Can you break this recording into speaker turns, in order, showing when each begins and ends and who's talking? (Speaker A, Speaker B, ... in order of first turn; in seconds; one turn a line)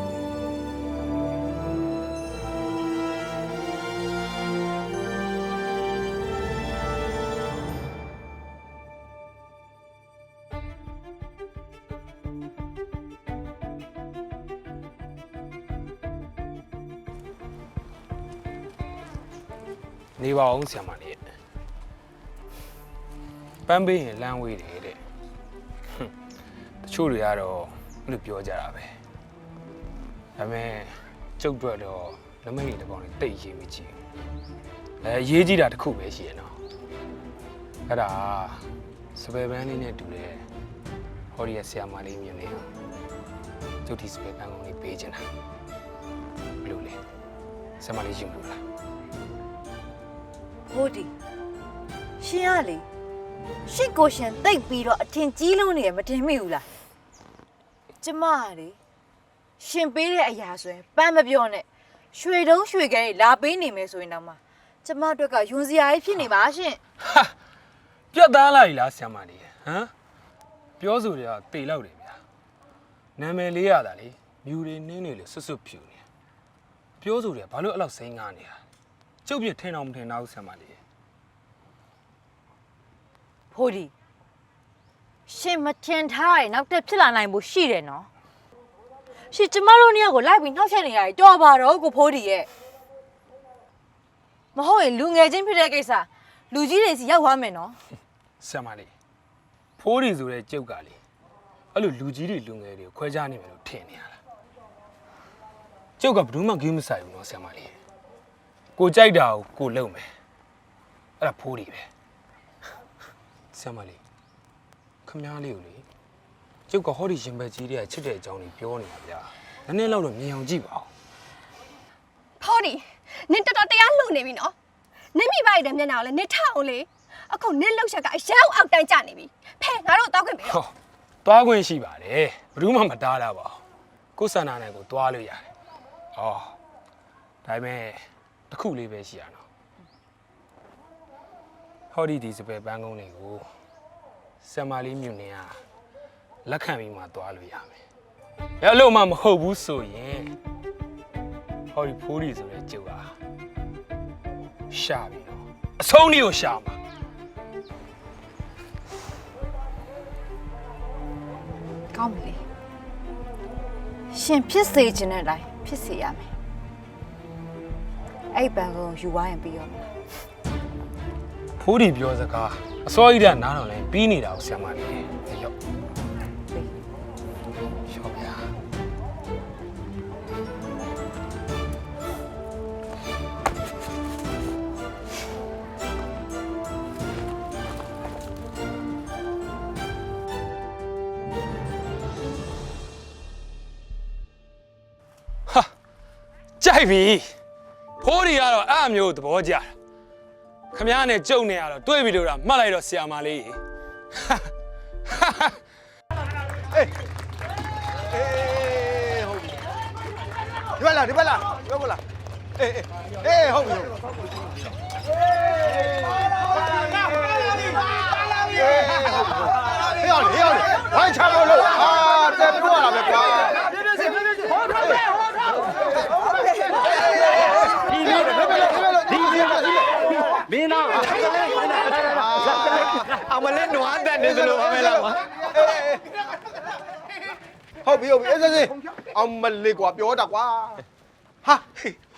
Speaker A: 20.2-21.2
Speaker A: 23.7-25.0
Speaker A: 26.8-28.9
Speaker A: 30.4-33.9
Speaker A: 35.0-36.5
Speaker A: 37.9-38.6
Speaker A: 39.1-40.4
Speaker A: 41.3-42.7
Speaker A: 43.9-45.2
Speaker A: 46.6-47.0
Speaker A: 47.8-48.6
Speaker B: 50.7-51.1
Speaker B: 52.2-52.9
Speaker B: 53.7-56.7
Speaker B: 58.0-58.8
Speaker B: 59.6-66.8
Speaker A: 68.1-69.9
Speaker A: 70.8-72.2
Speaker A: 73.2-76.0
Speaker A: 77.0-78.6
Speaker A: 79.2-80.8
Speaker B: 83.5-83.9
Speaker B: 85.3-88.1
Speaker B: 89.3-92.5
Speaker B: 94.5-97.8
Speaker A: 98.4-98.9
Speaker A: 99.8-101.0
Speaker A: 101.7-104.2
Speaker A: 106.0-107.8
Speaker A: 108.8-110.0
Speaker A: 111.2-111.9
Speaker A: 113.5-114.0
Speaker A: 115.0-115.8
Speaker A: 116.7-120.9
Speaker C: 122.4-124.5
Speaker C: 125.1-130.6
Speaker A: 130.4-130.7
Speaker A: 131.2-133.6
Speaker A: 134.2-135.5
Speaker A: 136.2-136.6
Speaker A: 137.4-139.4
Speaker A: 141.9-143.5
Speaker A: 144.4-145.6
Speaker A: 146.5-147.8
Speaker A: 148.6-150.3
Speaker A: 151.7-153.1
Speaker A: 154.7-156.8
Speaker B: 161.9-162.4
Speaker B: 164.1-166.3
Speaker B: 168.3-169.9
Speaker A: 171.6-175.5
Speaker A: 177.9-178.5
Speaker A: 196.6-197.3
Speaker A: 198.0-199.7
Speaker A: 200.7-203.6
Speaker A: 204.1-204.5
Speaker A: 205.1-205.6
Speaker D: 208.5-208.9
Speaker D: 210.8-211.7
Speaker D: 213.2-213.9
Speaker D: 217.4-223.9
Speaker D: 224.6-224.9
Speaker D: 226.1-236.5
Speaker D: 237.8-240.8